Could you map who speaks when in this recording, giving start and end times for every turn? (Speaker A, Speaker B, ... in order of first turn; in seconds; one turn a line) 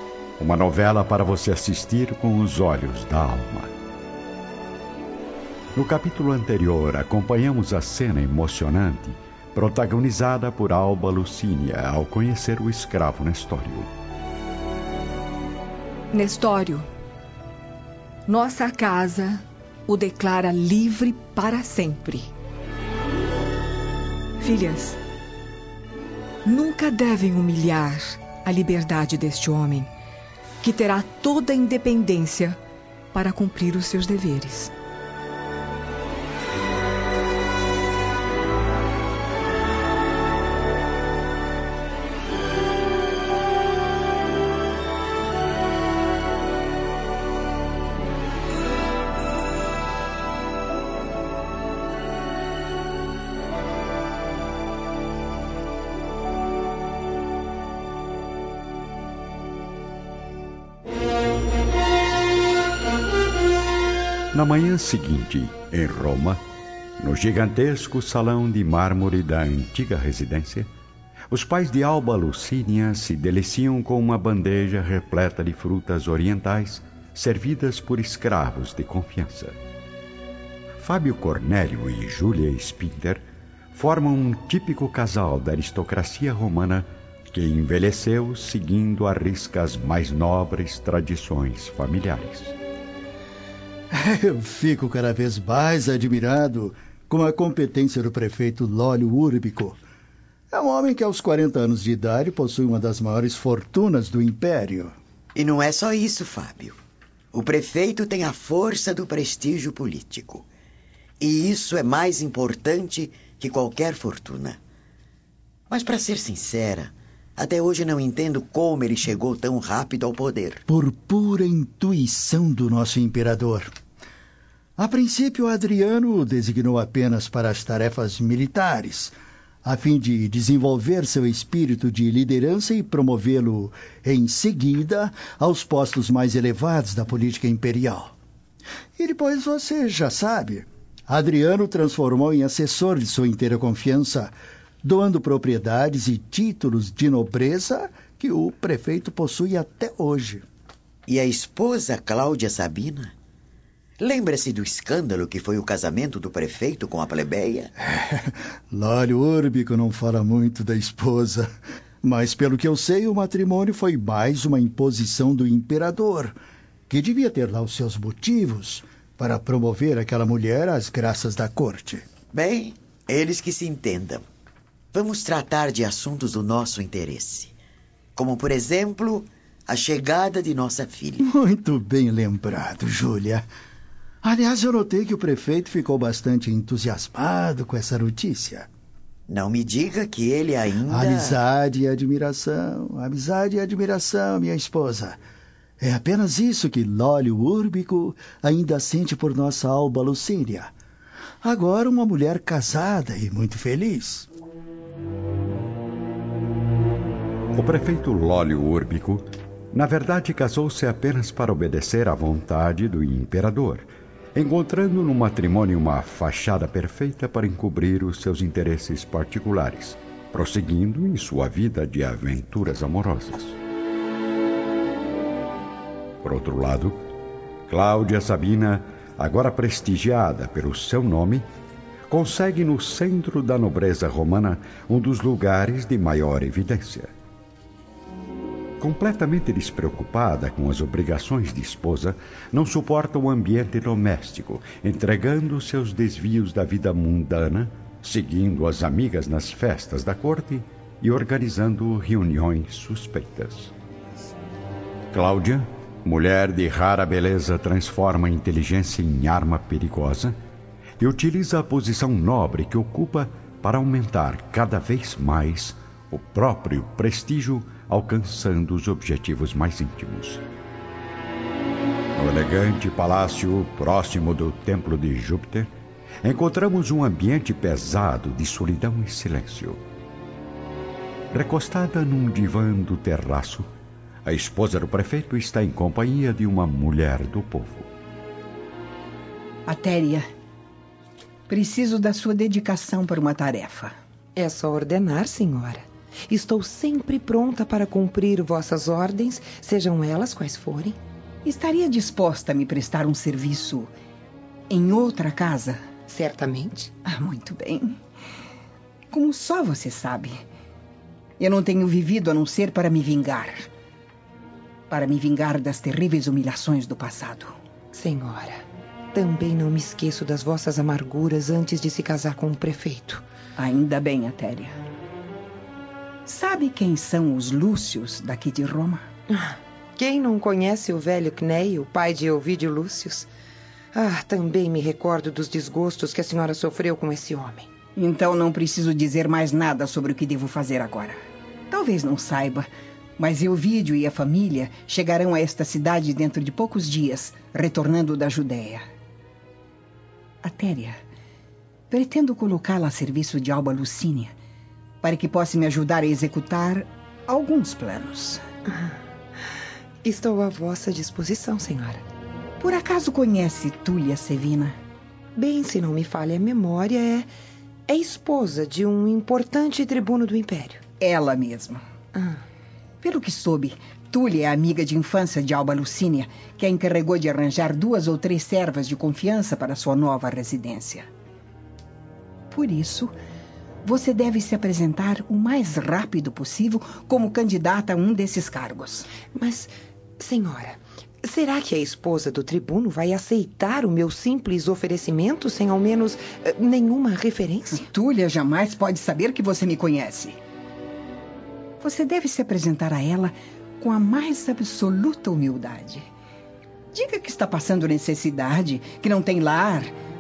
Speaker A: 0.4-3.7
Speaker A: 5.7-13.9
Speaker B: 16.1-16.9
Speaker B: 18.3-22.3
Speaker B: 24.4-25.0
Speaker B: 26.4-29.9
Speaker B: 30.6-32.6
Speaker B: 33.1-34.7
Speaker A: 64.3-66.4
Speaker A: 67.0-70.7
Speaker A: 71.3-79.6
Speaker A: 80.8-92.5
Speaker C: 93.9-99.8
Speaker C: 100.5-104.9
Speaker D: 105.4-106.8
Speaker D: 107.3-110.4
Speaker D: 111.2-114.6
Speaker D: 115.7-120.6
Speaker C: 120.7-123.7
Speaker C: 124.8-138.1
Speaker C: 139.0-150.4
Speaker D: 151.1-153.2
Speaker D: 154.0-157.7
Speaker C: 157.8-161.5
Speaker C: 162.0-166.4
Speaker C: 166.9-172.0
Speaker D: 172.3-174.2
Speaker D: 174.9-177.5
Speaker D: 178.2-181.2
Speaker C: 181.2-183.5
Speaker C: 184.2-188.7
Speaker D: 189.3-191.4
Speaker C: 190.9-195.2
Speaker C: 195.8-200.7
Speaker C: 201.4-204.3
Speaker A: 207.5-223.6
Speaker A: 226.2-227.0
Speaker A: 227.7-231.5
Speaker A: 232.1-237.1
Speaker A: 238.8-253.7
Speaker A: 255.1-260.4
Speaker A: 261.0-270.4
Speaker A: 272.1-275.7
Speaker A: 276.2-279.8
Speaker A: 281.3-283.7
Speaker A: 284.2-287.9
Speaker E: 289.7-290.2
Speaker E: 291.5-294.0
Speaker F: 294.4-301.0
Speaker E: 301.4-303.9
Speaker E: 304.7-305.8
Speaker F: 306.1-306.9
Speaker E: 307.1-308.0
Speaker E: 309.1-310.4
Speaker E: 311.4-313.7
Speaker E: 314.9-317.5
Speaker F: 317.9-323.2
Speaker E: 323.6-324.7
Speaker E: 326.2-329.1
Speaker F: 329.3-333.3
Speaker F: 333.9-337.7
Speaker E: 338.0-341.2
Speaker E: 341.7-348.9
Speaker E: 350.4-351.0
Speaker E: 351.9-354.3
Speaker E: 355.0-358.4
Speaker F: 358.6-359.0
Speaker F: 360.0-362.0
Speaker E: 362.6-364.8
Speaker F: 365.4-367.3
Speaker F: 367.9-370.8
Speaker E: 371.0-371.8
Speaker F: 372.1-372.4
Speaker E: 373.0-381.1
Speaker E: 382.5-383.1
Speaker E: 383.8-389.1
Speaker F: 389.3-397.9
Speaker E: 397.7-400.4
Speaker E: 401.8-406.1
Speaker E: 406.9-409.9